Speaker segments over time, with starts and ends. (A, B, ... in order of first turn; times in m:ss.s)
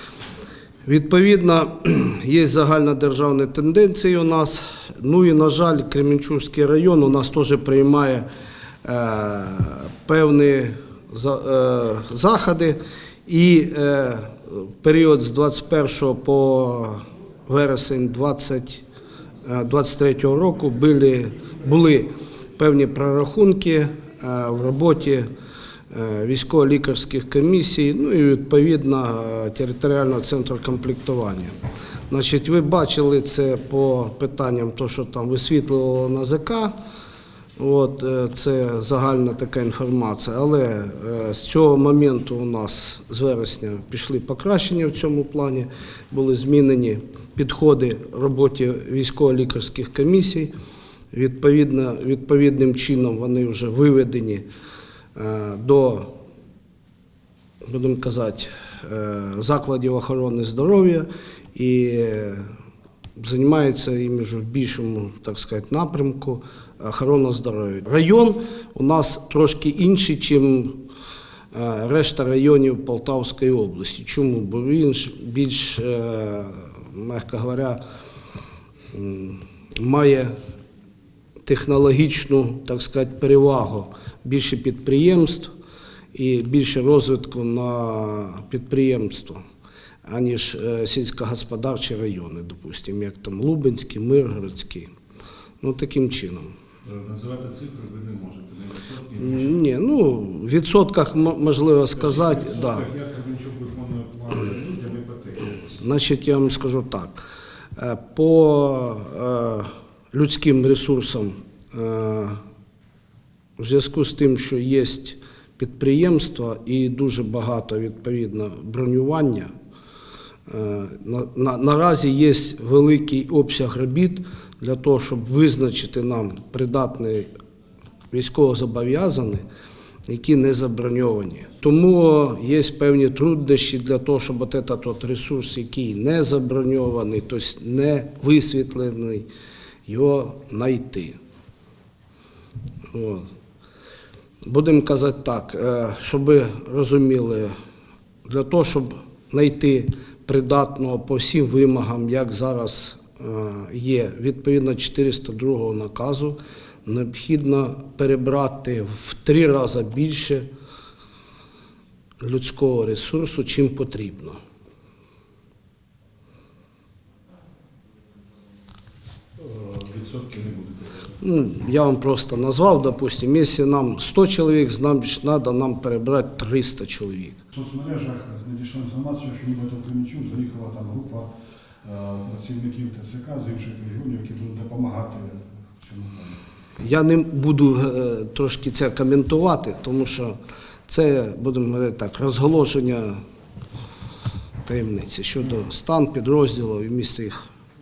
0:00.8-0:08.2 A
0:08.8-0:18.8 A
0:19.4-0:25.3 A
0:25.9-0:31.5 A
0:32.1-0:36.7 A
0:37.6-0:50.5 A
0:51.1-0:54.4 A
0:55.2-0:56.1 A
0:57.6-1:02.5 A
1:03.2-1:10.8 A
1:11.5-1:17.8 A
1:18.9-1:20.4 A
1:21.4-1:25.5 A
1:26.1-1:29.4 A
1:30.0-1:34.9 A
1:35.6-1:36.5 A
1:36.8-1:39.6 B
1:39.2-1:42.9 A
1:41.9-1:45.8 B
1:45.7-1:47.2 A
1:47.8-1:52.4 A
1:53.6-1:59.5 A
2:00.5-2:07.3 A
2:08.1-2:09.4 A
2:10.0-2:19.3 A
2:19.8-2:21.2 A
2:22.9-2:23.3 A
2:24.4-2:27.6 A
2:28.2-2:40.5 A
2:42.2-2:44.4 A
2:49.4-2:51.2 B
2:51.2-2:57.4 A
2:57.5-3:01.3 C
3:01.8-3:06.4 C
3:06.8-3:13.2 A
3:14.6-3:17.4 A